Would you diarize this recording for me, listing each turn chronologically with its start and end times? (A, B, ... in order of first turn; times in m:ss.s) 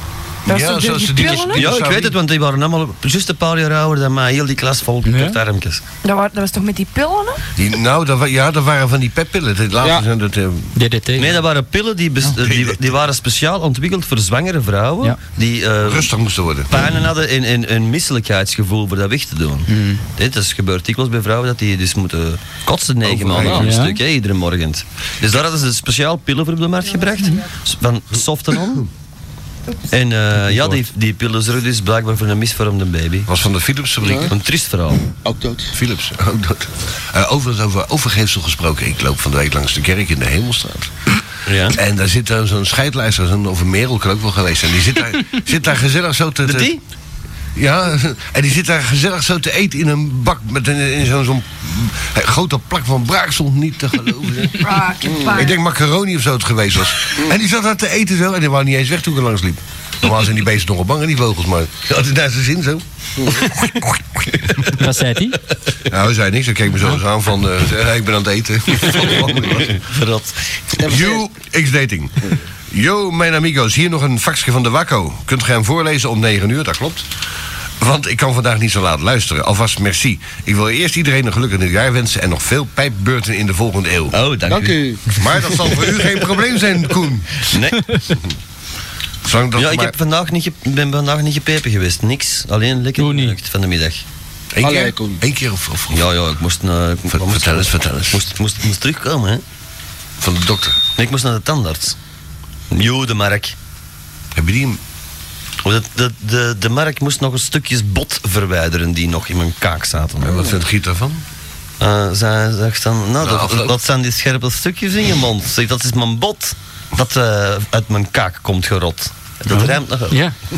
0:00.4-0:01.7 A
0:00.4-0:02.2 B
0:01.5-0:05.8 C
0:05.0-0:05.4 D
0:06.0-0:07.4 A
0:07.6-0:10.7 B
0:09.8-0:10.1 E
0:10.7-0:11.4 D
0:11.2-0:16.1 C
0:12.3-0:12.8 B
0:15.8-0:16.7 B
0:16.7-0:28.9 C
0:19.7-0:20.0 D
0:23.0-0:23.7 B
0:23.6-0:24.0 D
0:29.9-0:33.3 C
0:33.3-0:34.3 B
0:34.0-0:34.3 E
0:34.3-0:35.0 C
0:35.2-0:35.7 E
0:35.7-0:40.9 B
0:41.4-0:41.8 C
0:41.7-0:46.8 B
0:46.4-0:46.8 C
0:47.6-0:54.8 B
0:54.6-0:55.6 A
0:55.0-0:55.5 E
0:55.3-1:02.8 B
1:03.2-1:03.5 E
1:04.8-1:05.4 D
1:05.9-1:09.8 B
1:08.9-1:10.6 C
1:10.8-1:11.2 E
1:10.8-1:17.0 B
1:17.8-1:24.2 B
1:24.1-1:24.8 C
1:24.5-1:25.1 E
1:25.2-1:27.4 B
1:27.5-1:27.8 C
1:29.2-1:29.9 B
1:29.6-1:34.0 C
1:33.0-1:33.4 D
1:34.6-1:36.0 B
1:34.6-1:35.2 E
1:35.9-1:39.4 C
1:37.1-1:38.2 B
1:40.2-1:40.8 B
1:41.0-1:42.0 C
1:42.7-1:43.6 C
1:44.4-1:44.8 B
1:45.6-1:50.4 C
1:50.2-1:51.2 B
1:51.8-2:00.2 C
1:53.2-1:53.7 B
1:59.5-2:00.4 D